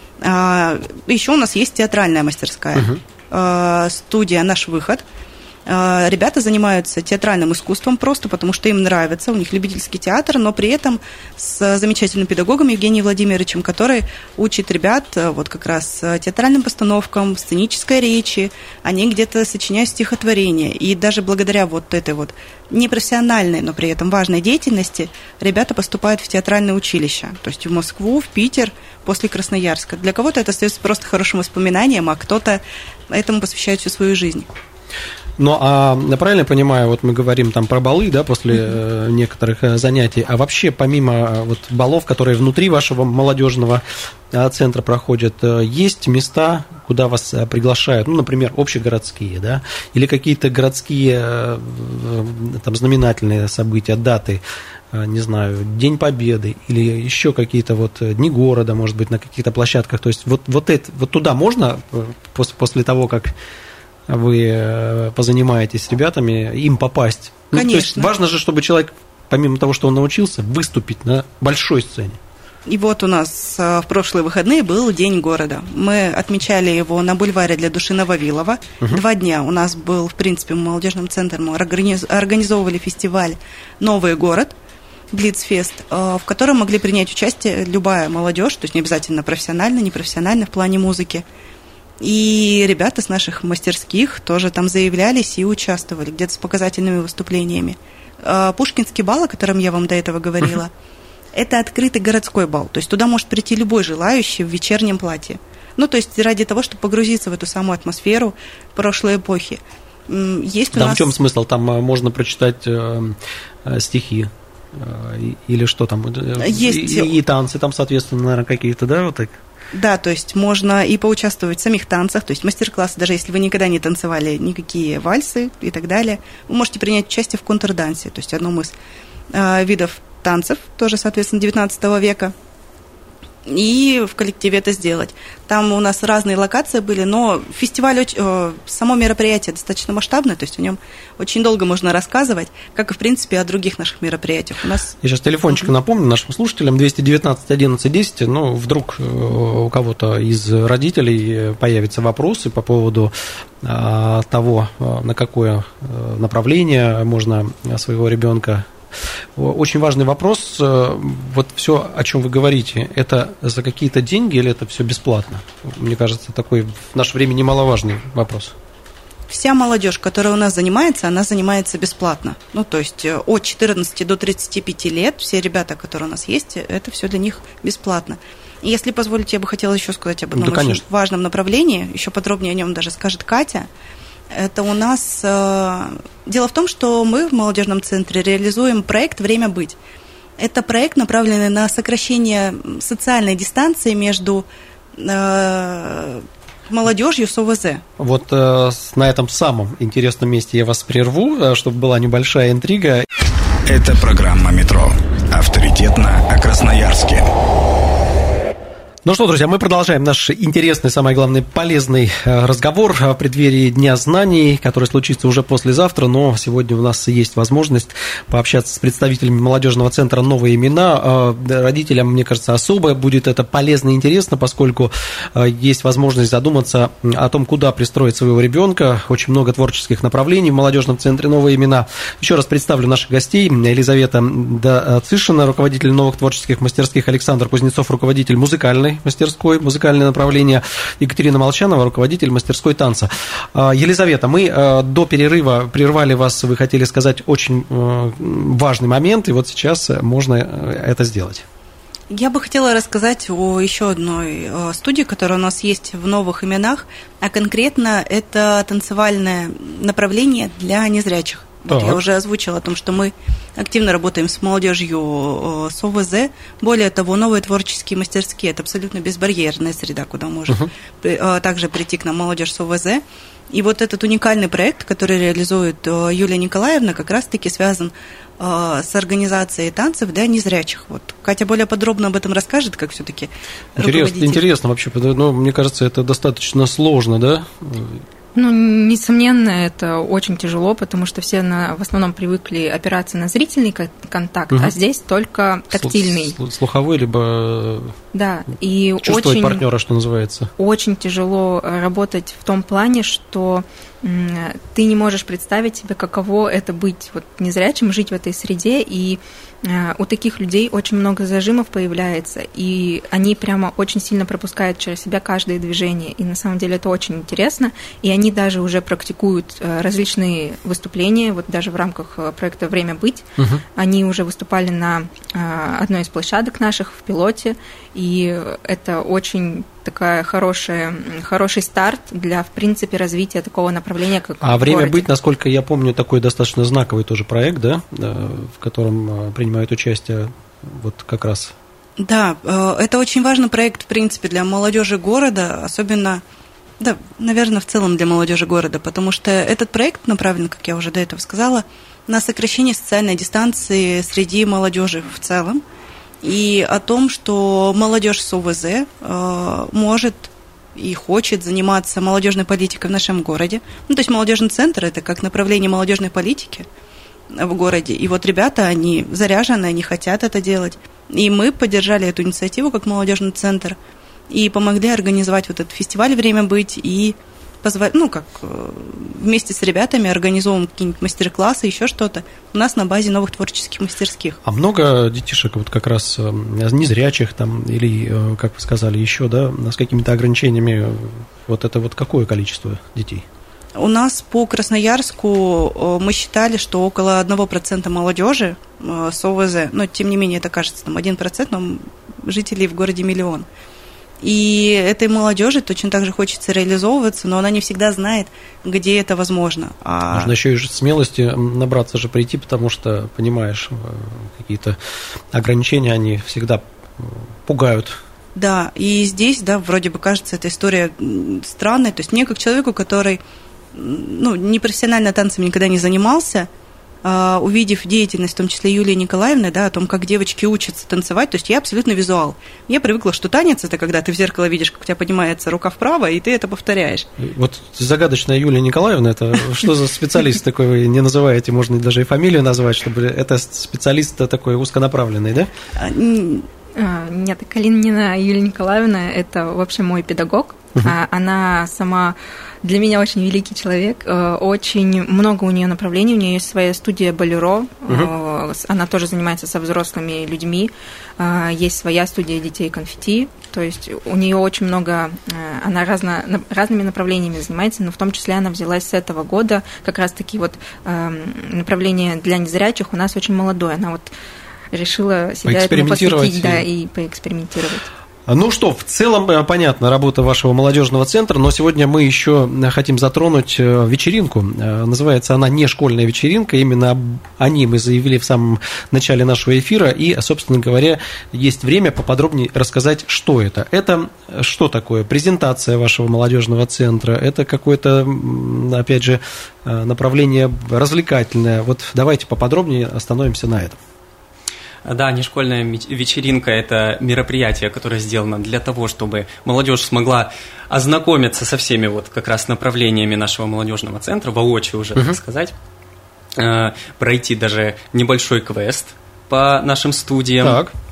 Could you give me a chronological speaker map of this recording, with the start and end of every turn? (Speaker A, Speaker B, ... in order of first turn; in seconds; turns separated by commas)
Speaker A: 0.2-5.0, Speaker B: 2.8-3.0, Speaker A: 5.7-34.5, Speaker B: 35.4-54.4, Speaker B: 54.9-63.3, Speaker B: 64.1-72.2, Speaker A: 67.5-68.1, Speaker A: 72.7-84.5, Speaker A: 85.1-91.2, Speaker A: 92.0-100.7, Speaker A: 101.3-111.1, Speaker B: 110.7-119.4, Speaker A: 116.4-117.1, Speaker A: 119.7-128.7, Speaker A: 129.3-132.3, Speaker A: 133.4-144.9, Speaker B: 145.0-158.7, Speaker B: 159.3-168.5, Speaker A: 169.3-183.7, Speaker B: 180.3-180.8, Speaker A: 184.3-189.8, Speaker A: 190.4-197.8, Speaker B: 198.0-203.1, Speaker C: 203.7-207.3, Speaker B: 209.0-251.4, Speaker A: 252.1-284.4, Speaker B: 261.7-262.0, Speaker B: 283.8-288.0, Speaker D: 288.3-296.4, Speaker B: 295.7-297.9, Speaker D: 298.1-299.6, Speaker B: 299.0-300.5, Speaker D: 300.6-335.1, Speaker B: 334.4-341.5, Speaker A: 342.0-346.2, Speaker A: 346.8-355.6, Speaker A: 356.2-366.7, Speaker A: 367.3-373.8, Speaker A: 374.3-384.4, Speaker B: 384.4-393.2, Speaker A: 393.8-403.5, Speaker A: 404.2-410.3, Speaker B: 410.1-414.8, Speaker B: 415.3-418.0, Speaker A: 418.3-423.2, Speaker A: 423.7-426.5, Speaker A: 427.0-437.1, Speaker B: 437.2-445.5, Speaker A: 445.8-446.5, Speaker D: 446.7-474.1, Speaker D: 474.7-477.9, Speaker B: 475.4-476.6, Speaker B: 478.3-503.8, Speaker E: 504.8-515.5, Speaker E: 516.4-520.6, Speaker B: 520.4-520.7